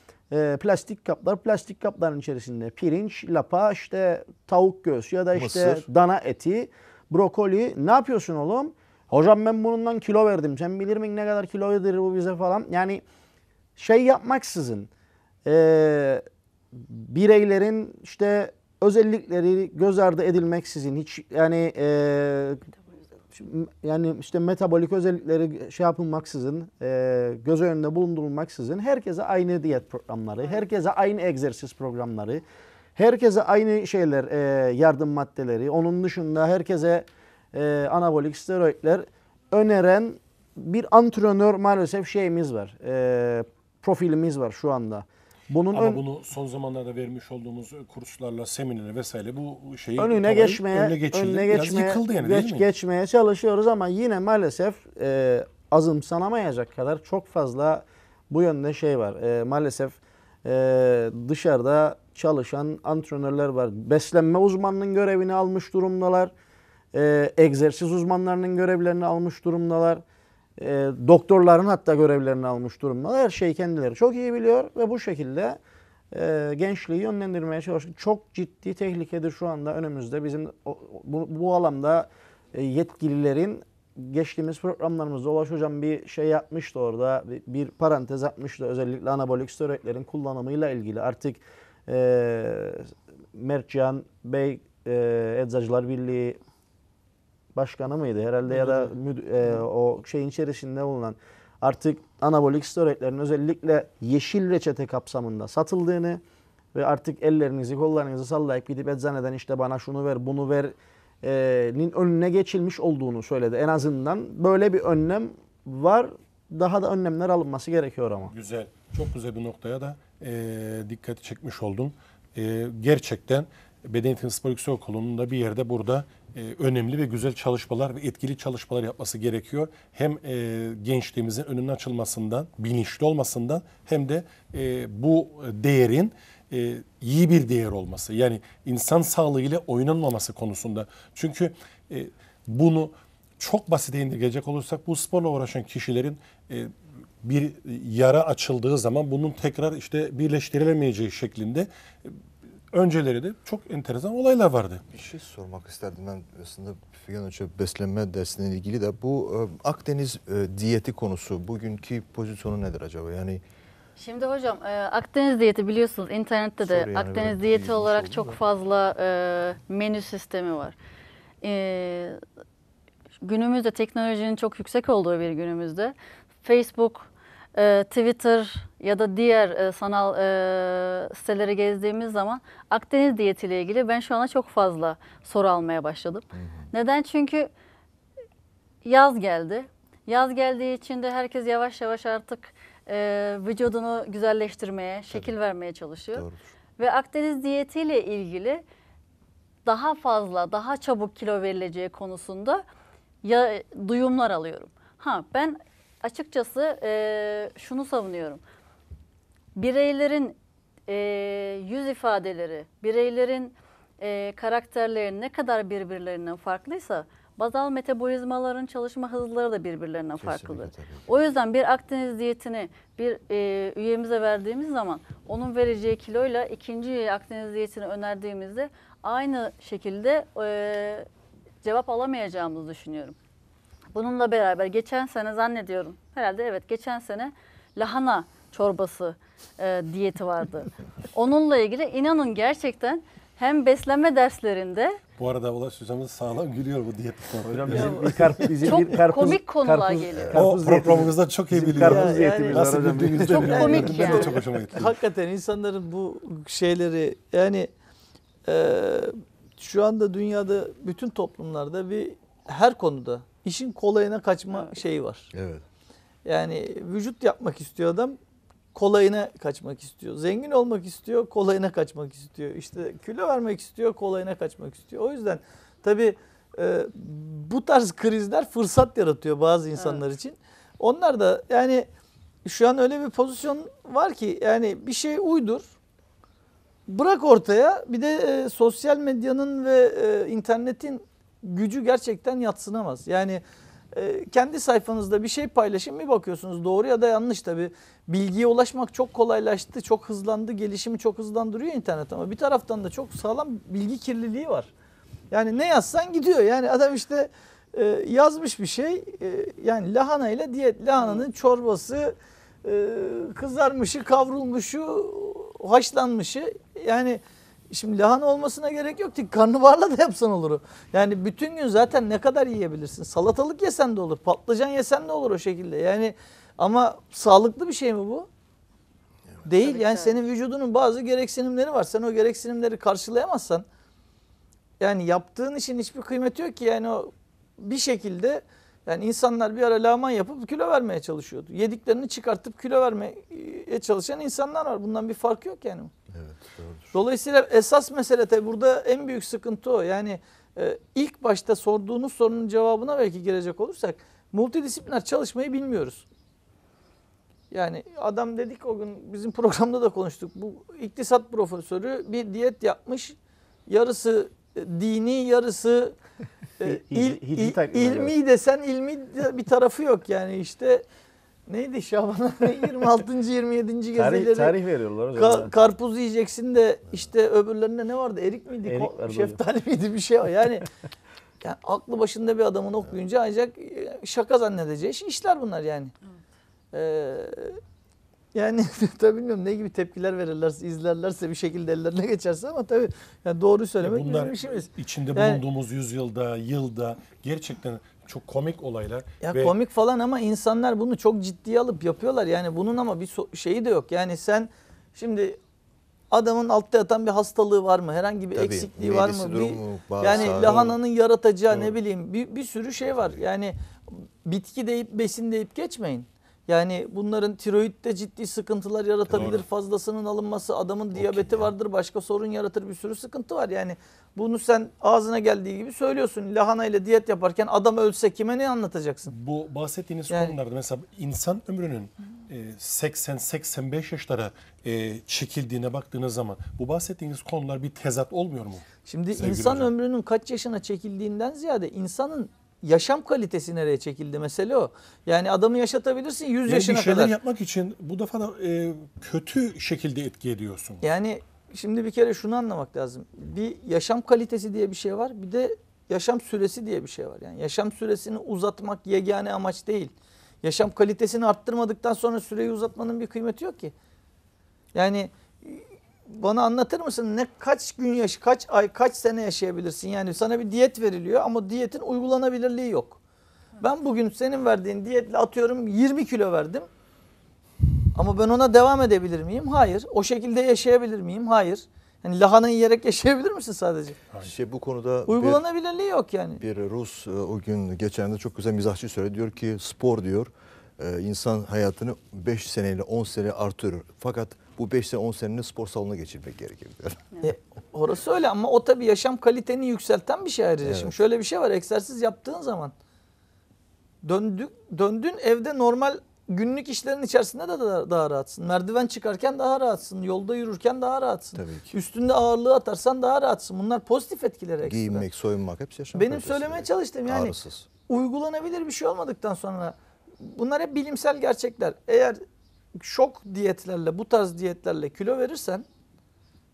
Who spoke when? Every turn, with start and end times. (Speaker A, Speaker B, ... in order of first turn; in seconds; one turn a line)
Speaker A: 0.3-13.0
Speaker B: 5.3-5.8
Speaker A: 13.8-14.9
Speaker A: 15.4-22.7
Speaker A: 23.3-32.4
Speaker A: 33.0-46.0
Speaker C: 45.7-52.7
Speaker A: 50.0-66.3
Speaker A: 66.9-70.0
Speaker A: 70.6-75.6
Speaker A: 76.1-96.4
Speaker A: 97.5-106.2
Speaker A: 106.7-118.3
Speaker C: 118.3-152.2
Speaker C: 152.7-154.8
Speaker B: 154.9-163.4
Speaker D: 163.9-170.8
Speaker B: 166.6-168.4
Speaker D: 171.4-172.2
Speaker D: 173.2-187.5
Speaker B: 186.3-186.7
Speaker D: 188.8-196.2
Speaker B: 196.1-196.4
Speaker D: 196.8-198.6
Speaker D: 199.6-202.6
Speaker D: 203.2-208.4
Speaker D: 209.6-210.4
Speaker D: 210.9-231.1
Speaker B: 220.2-221.0
Speaker D: 231.6-233.2
Speaker D: 233.9-245.0
Speaker C: 245.2-248.5
Speaker A: 247.4-254.0
Speaker E: 247.7-248.0
Speaker D: 248.6-250.4
Speaker C: 250.3-254.9
Speaker E: 251.8-257.7
Speaker D: 253.4-254.3
Speaker E: 258.4-265.3
Speaker B: 265.3-265.6
Speaker E: 266.2-268.2
Speaker E: 268.7-281.9
Speaker E: 282.4-285.7
Speaker E: 286.9-304.7
Speaker E: 305.3-328.3
Speaker E: 329.4-333.6
Speaker D: 329.6-330.2
Speaker E: 334.8-345.9
Speaker B: 346.1-346.9
Speaker E: 346.9-356.1
Speaker E: 357.5-363.1
Speaker E: 363.7-366.0
Speaker E: 366.6-370.8
Speaker A: 366.6-368.1
Speaker E: 371.5-374.6
Speaker A: 373.9-375.5
Speaker E: 375.1-380.6
Speaker A: 378.6-379.4
Speaker E: 381.4-385.9
Speaker E: 386.7-387.6
Speaker E: 388.3-395.4
Speaker C: 393.8-399.5
Speaker E: 399.2-405.4
Speaker E: 406.1-429.1
Speaker B: 408.3-410.7
Speaker C: 410.0-410.5
Speaker C: 411.5-411.8
Speaker B: 419.1-419.4
Speaker C: 419.1-419.4
Speaker B: 420.9-421.5
Speaker C: 429.1-439.7
Speaker E: 430.1-430.4
Speaker E: 438.9-447.1
Speaker C: 446.5-450.8
Speaker E: 450.8-463.7
Speaker E: 464.7-473.0
Speaker E: 473.6-476.7
Speaker E: 477.9-484.0
Speaker B: 484.2-485.4
Speaker E: 485.1-486.4
Speaker B: 486.4-497.0
Speaker E: 497.2-502.7
Speaker B: 500.6-501.0
Speaker E: 504.0-515.0
Speaker B: 511.3-511.8
Speaker B: 514.6-517.7
Speaker E: 515.9-522.2
Speaker E: 522.7-525.6